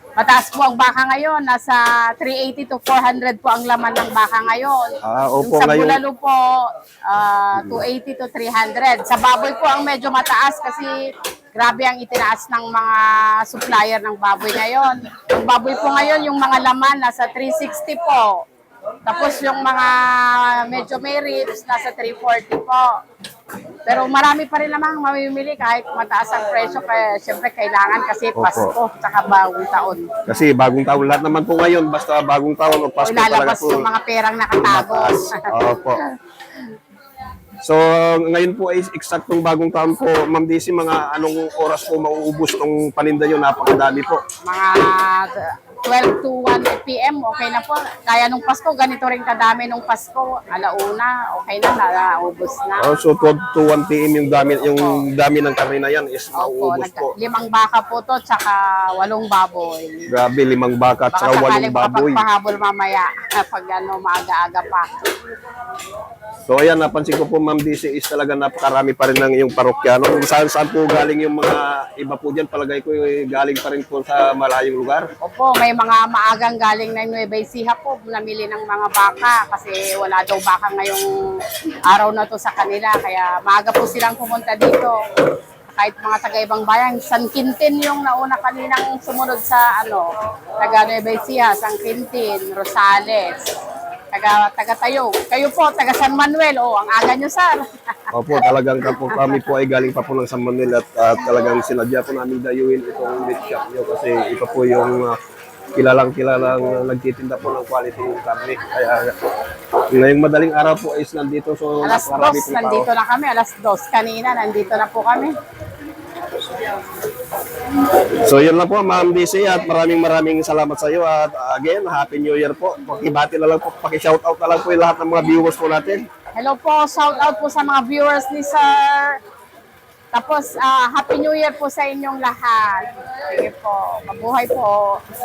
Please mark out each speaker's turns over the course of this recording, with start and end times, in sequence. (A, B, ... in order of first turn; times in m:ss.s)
0:00.2-0:18.4 A
0:05.0-0:06.0 B
0:07.6-0:07.8 B
0:19.0-0:23.0 A
0:23.8-0:30.1 A
0:28.4-0:28.8 B
0:30.3-0:33.9 B
0:33.0-0:35.5 A
0:34.6-0:36.0 B
0:37.6-0:44.2 B
0:44.4-0:52.9 A
0:52.8-0:57.1 B
0:54.7-0:55.0 A
0:56.3-1:00.2 A
1:00.1-1:02.2 B
1:01.1-1:04.9 A
1:06.5-1:15.1 B
1:15.2-1:21.1 A
1:21.9-1:25.0 A
1:25.7-1:30.1 A
1:30.6-1:33.5 A
1:34.1-1:39.4 A
1:38.1-1:45.2 B
1:45.8-1:52.9 B
1:51.8-1:55.3 A
1:57.9-2:06.1 B
2:06.3-2:09.2 A
2:10.1-2:15.0 A